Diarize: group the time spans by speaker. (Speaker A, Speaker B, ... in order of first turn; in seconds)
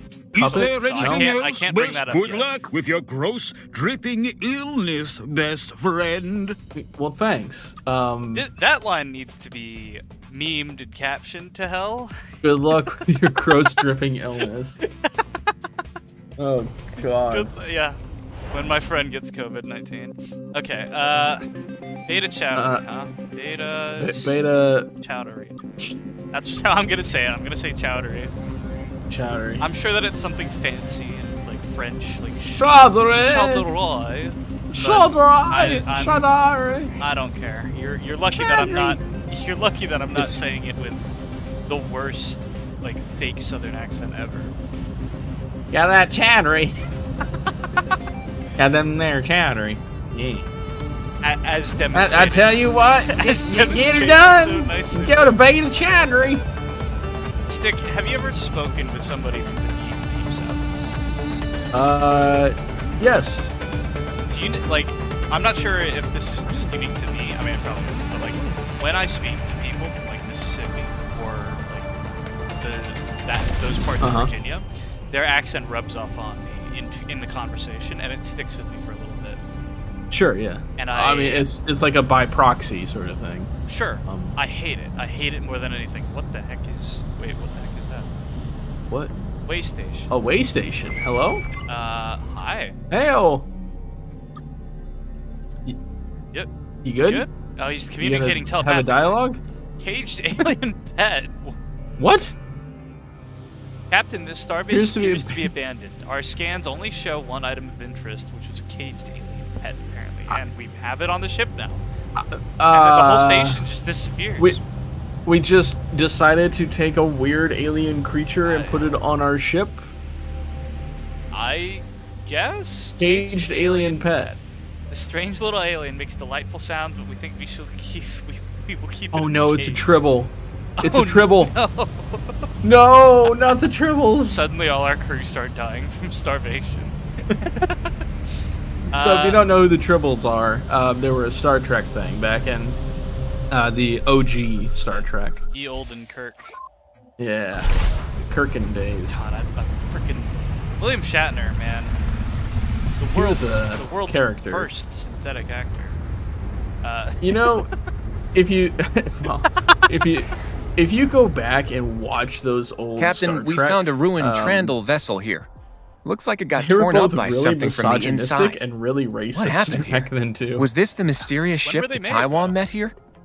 Speaker A: 0.3-6.6
Speaker B: 0.4-1.3, 6.7-8.5, 12.4-14.8, 16.4-17.5, 22.5-22.8, 24.0-24.9, 29.1-29.6, 32.6-33.7, 34.7-36.9, 38.3-39.0, 40.1-40.4, 45.7-46.8, 48.6-50.5, 51.9-56.4, 61.7-63.5, 74.0-74.3, 80.1-83.5, 84.0-84.4, 90.1-91.5, 92.9-93.5, 96.8-97.3, 98.0-99.4, 102.0-102.3, 104.7-105.5, 112.2-113.7, 115.2-119.9, 123.0-124.3, 129.1-131.5, 132.6-134.4, 138.9-142.8, 143.5-145.4, 147.2-147.7, 148.2-149.2, 153.1-154.7, 157.2-157.7, 158.3-164.7, 166.5-170.7
Speaker C: 0.4-2.5, 8.3-12.1, 14.8-15.2, 16.9-18.0, 18.5-21.4, 22.1-24.4, 25.0-25.6, 26.3-28.3, 29.6-36.3, 37.0-41.0, 41.7-44.5, 51.2-55.2, 57.5-60.9, 64.3-71.9, 72.6-79.4, 80.8-81.5, 83.7-88.1, 89.5-90.1, 91.6-92.8, 97.0-99.2, 99.8-101.6, 103.9-111.8, 112.7-114.6, 118.4-118.9, 121.3-130.0, 130.8-132.5, 134.2-137.8, 138.9-139.5, 144.9-146.5, 149.1-152.0, 153.0-156.0, 156.8-157.6, 171.6-172.6
Speaker D: 163.0-165.5, 166.0-168.6, 169.3-172.9